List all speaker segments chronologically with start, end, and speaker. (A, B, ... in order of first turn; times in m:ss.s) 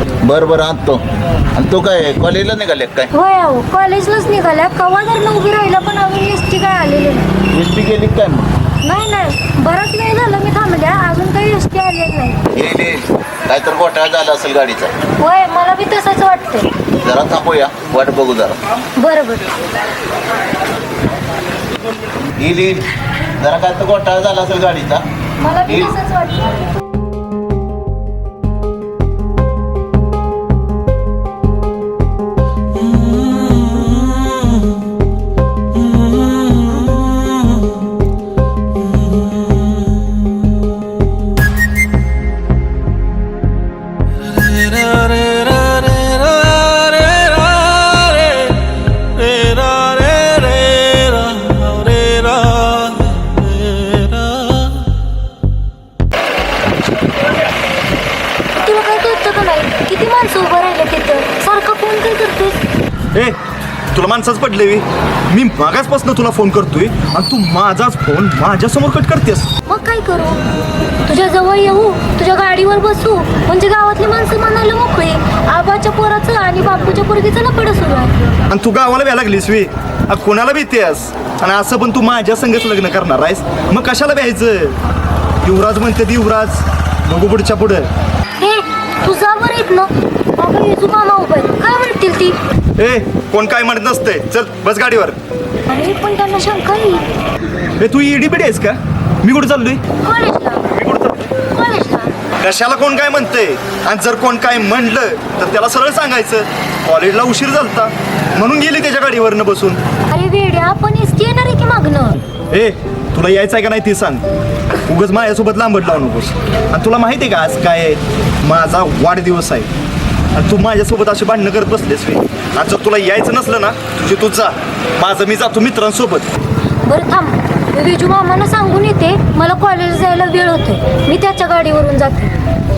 0:00.2-0:01.0 A
0:01.6-0:03.1 A
0:03.1-0:07.3 B
0:07.5-0:08.5 A
0:08.8-0:12.4 B
0:12.5-0:14.9 A
0:15.2-0:16.7 B
0:17.0-0:18.6 A
0:19.0-0:19.5 B
0:22.4-0:22.8 A
0:23.4-0:25.0 A
0:25.4-0:26.6 B
0:58.6-1:02.6 B
1:03.9-1:09.5 C
1:09.7-1:10.4 B
1:11.1-1:18.1 B
1:18.5-1:24.8 C
1:25.4-1:27.9 C
1:28.4-1:32.4 B
1:32.8-1:35.2 C
1:35.7-1:37.0 B
1:37.8-1:39.8 C
1:40.0-1:40.6 B
1:40.7-1:41.3 C
1:41.5-1:42.1 B
1:42.4-1:49.8 C
1:50.1-1:52.2 B
1:52.5-1:54.2 C
1:54.9-1:59.7 C
2:00.4-2:06.3 C
2:06.9-2:12.3 B